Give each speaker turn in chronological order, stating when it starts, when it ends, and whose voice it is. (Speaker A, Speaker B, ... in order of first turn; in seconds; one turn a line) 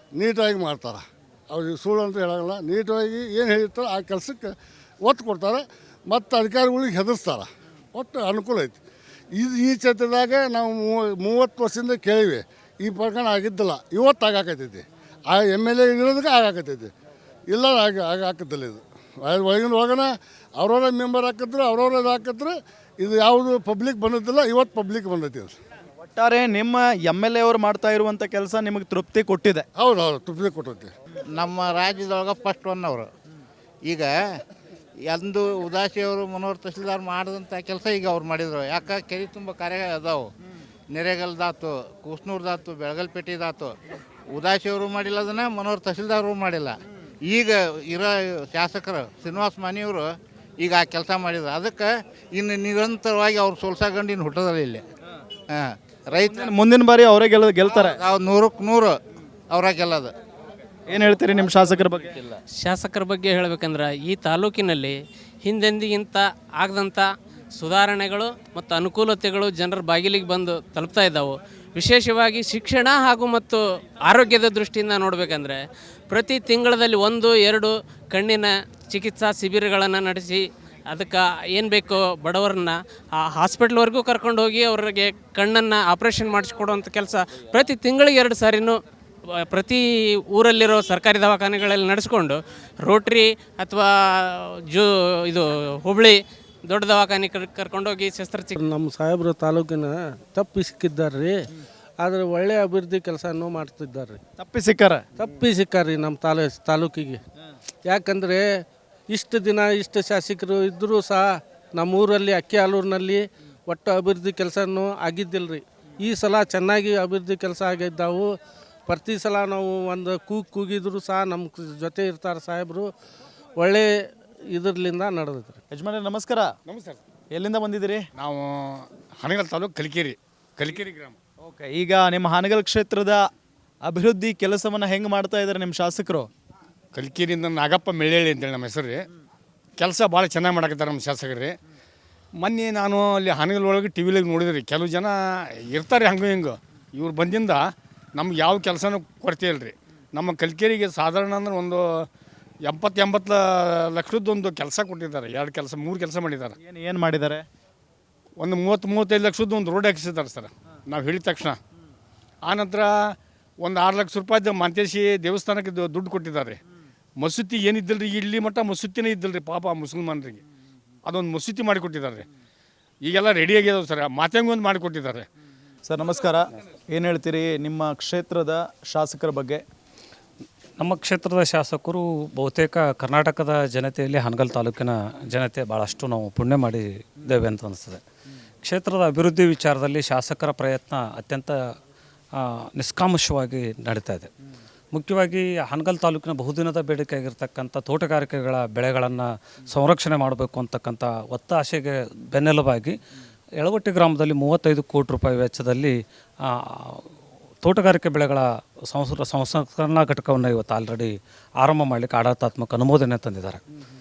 Speaker A: 0.2-8.8
Speaker A: 9.3-16.9
Speaker A: 17.5-25.6
Speaker B: 26.2-29.7
Speaker A: 29.8-30.9
Speaker C: 31.3-33.1
Speaker C: 33.8-34.1
Speaker C: 35.1-40.3
Speaker C: 40.9-43.7
Speaker C: 44.3-54.8
Speaker C: 55.5-56.5
Speaker B: 56.5-58.0
Speaker C: 57.6-59.0
Speaker C: 59.5-60.1
Speaker B: 60.9-62.1
Speaker D: 62.6-98.6
Speaker E: 98.6-101.4
Speaker E: 102.0-104.2
Speaker B: 104.4-105.0
Speaker E: 105.2-107.2
Speaker E: 107.9-118.4
Speaker E: 118.9-122.9
Speaker E: 123.6-125.6
Speaker B: 125.7-126.5
Speaker F: 126.7-127.0
Speaker B: 127.3-128.1
Speaker F: 128.2-131.2
Speaker B: 131.4-133.3
Speaker B: 133.8-136.3
Speaker F: 136.9-139.0
Speaker F: 139.8-141.6
Speaker F: 142.4-145.2
Speaker F: 145.7-152.1
Speaker F: 152.6-156.6
Speaker B: 156.6-157.5
Speaker F: 158.4-161.6
Speaker F: 162.4-166.6
Speaker F: 167.2-170.4
Speaker F: 171.1-172.3
Speaker F: 173.0-175.3
Speaker B: 175.9-179.6
Speaker G: 180.8-188.0
Speaker G: 188.6-191.6
Speaker G: 192.3-194.3
Speaker G: 194.9-203.0
Speaker G: 203.6-207.1
Speaker G: 207.6-213.6